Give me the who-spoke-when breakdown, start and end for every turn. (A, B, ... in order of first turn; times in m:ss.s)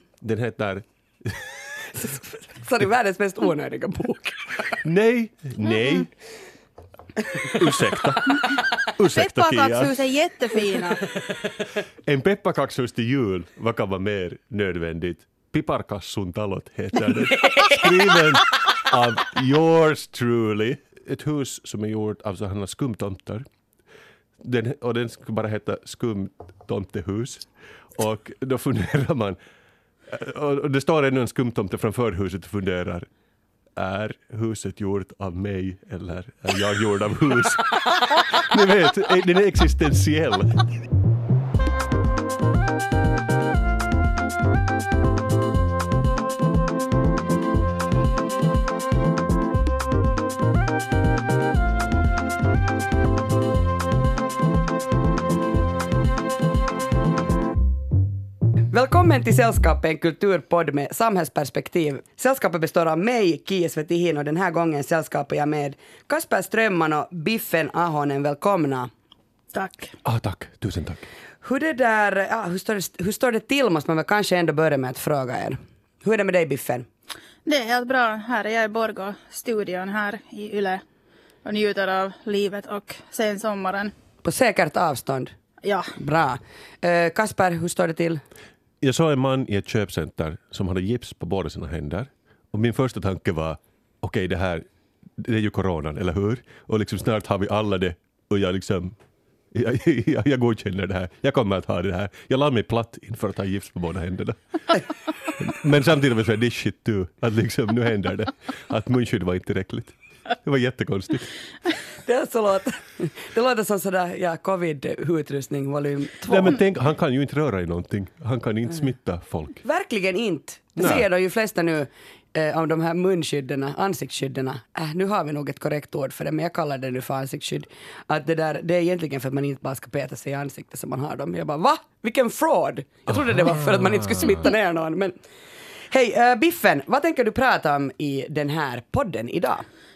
0:00.2-0:01.6 A
0:02.0-0:04.8 B
0:04.8-0:06.1 A
0:07.5-0:10.0 A
0:09.1-0:11.1 C
0:12.0-0:23.4 A
0:24.4-0:29.4 A
0:30.1-0:33.1 A
0:33.8-0:40.6 A
0:58.7-1:08.9 B
1:09.5-1:09.9 C
1:10.0-1:11.1 A
1:11.4-1:16.9 B
1:17.4-1:20.8 C
1:21.4-1:23.9 C
1:24.2-1:25.3 B
1:25.6-1:25.9 C
1:26.0-1:28.2 B
1:28.8-1:34.6 A
1:35.2-1:38.9 A
1:39.5-1:51.3 A
1:52.0-1:56.6 B
1:56.3-1:59.6 A
1:59.6-2:15.1 B
2:00.8-2:01.0 A
2:13.8-2:14.2 A
2:15.9-2:19.6 B